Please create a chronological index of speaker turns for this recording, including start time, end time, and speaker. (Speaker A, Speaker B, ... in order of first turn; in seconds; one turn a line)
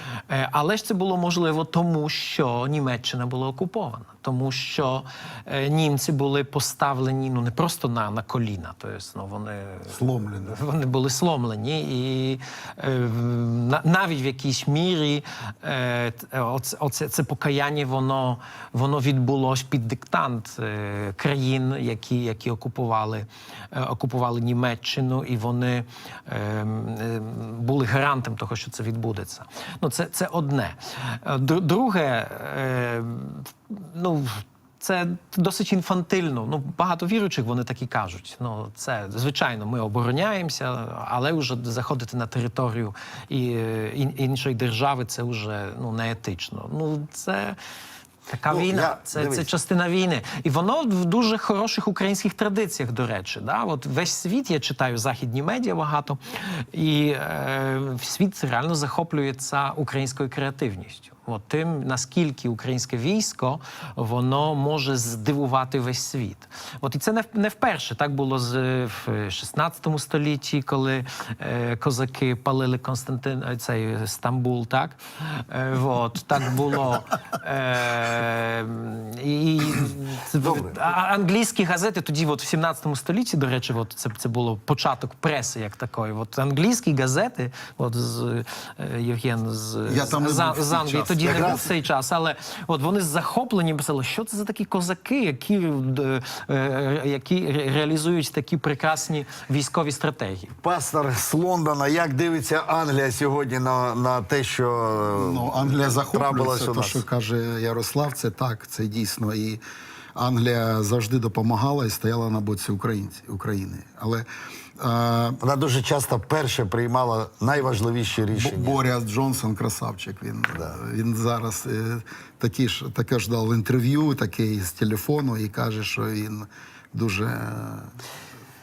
Speaker A: 0.3-47.6
Speaker B: 9.9-10.6
Speaker A: 48.3-100.5
Speaker C: 48.5-49.5
Speaker C: 80.4-80.8
Speaker B: 89.9-91.8
Speaker C: 91.3-91.7
Speaker C: 100.6-107.0
Speaker B: 105.2-109.6
Speaker B: 110.2-114.3
Speaker B: 114.8-115.4
Speaker C: 115.4-118.8
Speaker B: 118.3-128.0